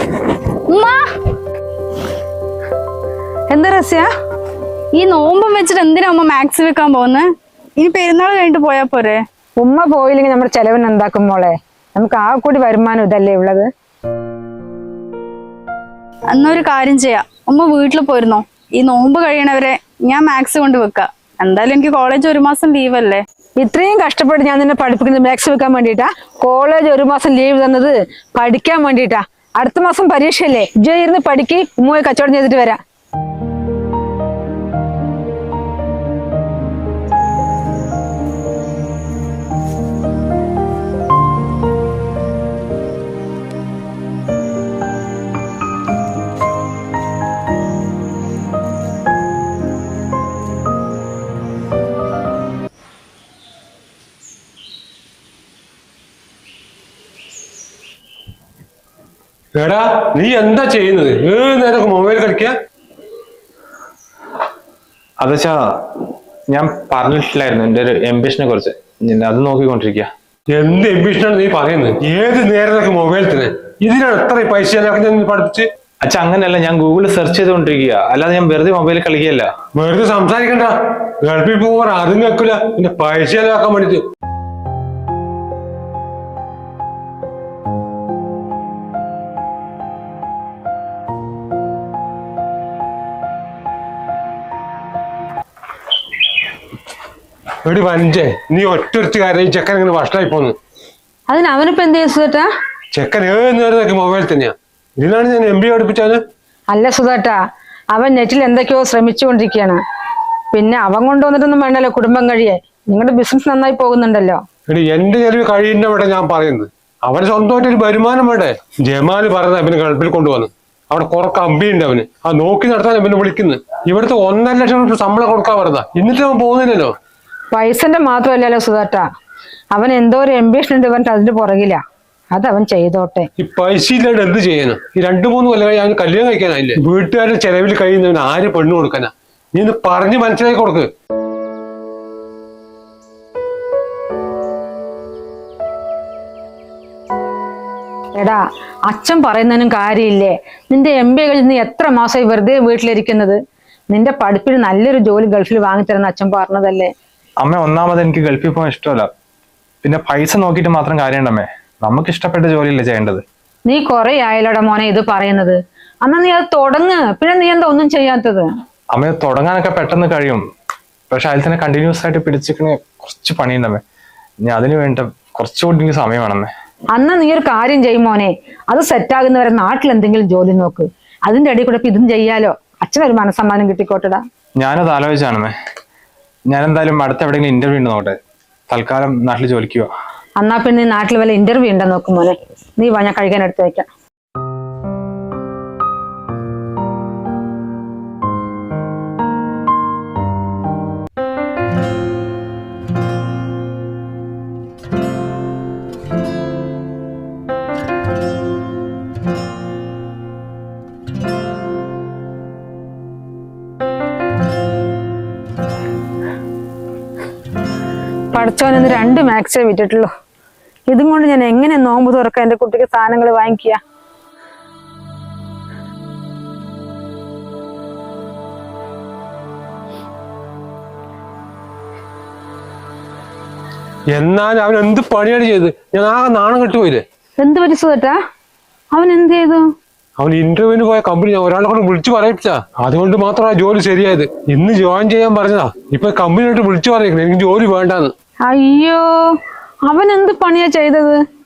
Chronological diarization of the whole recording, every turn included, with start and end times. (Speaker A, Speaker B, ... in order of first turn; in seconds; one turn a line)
Speaker A: 0.7-1.1
Speaker B: 3.5-4.1
Speaker A: 4.9-9.2
Speaker B: 9.6-13.7
Speaker A: 16.3-23.2
Speaker B: 23.6-32.8
Speaker C: 59.6-62.5
Speaker D: 65.2-70.1
Speaker C: 70.5-75.7
Speaker D: 76.0-79.5
Speaker C: 79.8-84.1
Speaker C: 97.6-100.5
Speaker B: 101.3-102.5
Speaker C: 102.9-106.2
Speaker B: 106.7-107.4
Speaker B: 107.9-109.8
Speaker B: 110.5-114.4
Speaker C: 114.7-126.9
Speaker B: 127.5-129.1
Speaker B: 129.7-131.8
Speaker B: 132.3-133.3
Speaker C: 133.4-140.9
Speaker B: 148.2-153.4
Speaker B: 153.9-156.9
Speaker D: 157.4-159.1
Speaker D: 159.8-163.2
Speaker B: 163.7-168.5
Speaker D: 168.9-170.4
Speaker D: 171.1-173.8
Speaker D: 174.4-176.5
Speaker B: 176.9-184.2
Speaker D: 184.6-185.5
Speaker D: 186.5-188.2
Speaker D: 188.7-189.9
Speaker B: 190.4-193.9
Speaker B: 218.3-220.1
Speaker B: 220.9-223.8
Speaker C: 234.1-237.0
Speaker B: 237.4-238.2
Speaker B: 238.9-239.7
Speaker C: 240.2-248.1
Speaker B: 248.4-251.2